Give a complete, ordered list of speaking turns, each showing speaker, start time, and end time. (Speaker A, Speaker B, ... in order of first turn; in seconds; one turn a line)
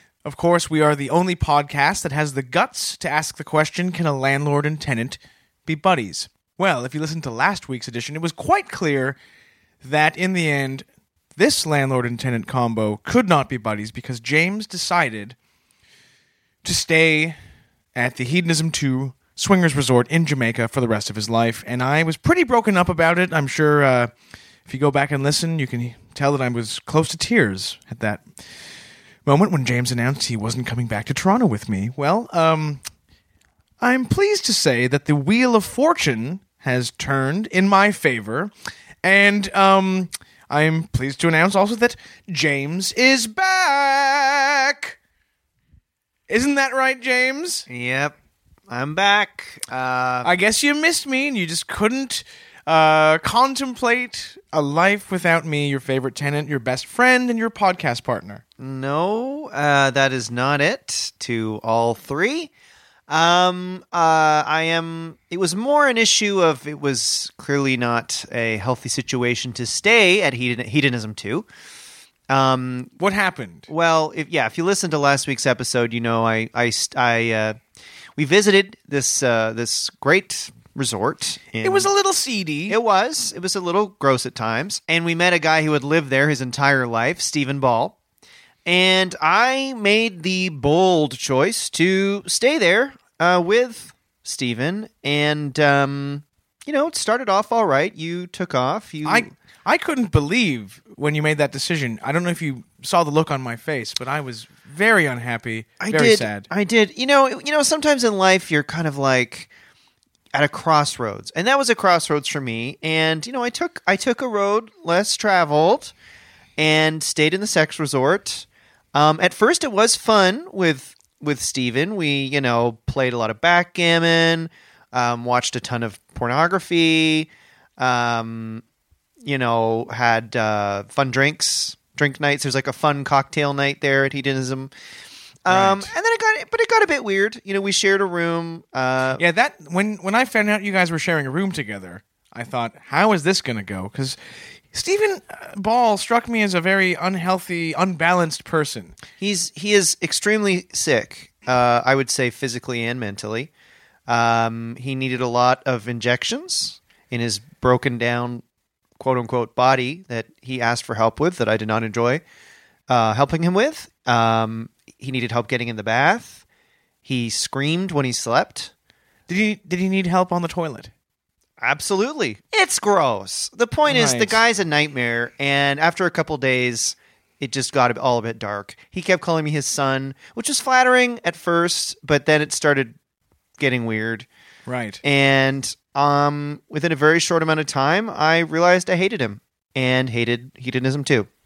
Speaker A: 0.2-9.2
Speaker A: 9.8-10.8
Speaker A: 11.4-15.3
Speaker A: 16.6-17.4
Speaker A: 17.9-24.1
Speaker A: 24.6-28.2
Speaker A: 29.2-32.8
Speaker A: 33.8-38.5
Speaker A: 39.0-44.9
Speaker A: 46.3-47.7
Speaker B: 47.7-48.1
Speaker B: 48.7-50.3
Speaker A: 50.2-58.4
Speaker B: 58.6-62.5
Speaker B: 63.1-71.5
Speaker B: 72.3-72.9
Speaker A: 73.0-73.7
Speaker B: 73.7-77.5
Speaker B: 78.2-81.9
Speaker A: 81.6-82.8
Speaker B: 82.7-88.0
Speaker B: 88.7-99.3
Speaker A: 99.0-106.5
Speaker B: 105.8-109.5
Speaker B: 110.3-115.9
Speaker B: 116.6-128.6
Speaker B: 129.2-134.7
Speaker B: 135.4-139.2
Speaker A: 135.5-135.9
Speaker A: 139.2-144.2
Speaker A: 144.7-148.9
Speaker B: 149.2-153.5
Speaker B: 154.1-158.4
Speaker B: 159.0-162.2
Speaker B: 162.9-166.4
Speaker B: 167.1-168.7
Speaker A: 169.3-170.9
Speaker B: 171.6-182.9
Speaker A: 173.8-174.4
Speaker B: 183.6-184.3
Speaker A: 184.7-185.0
Speaker B: 185.0-191.3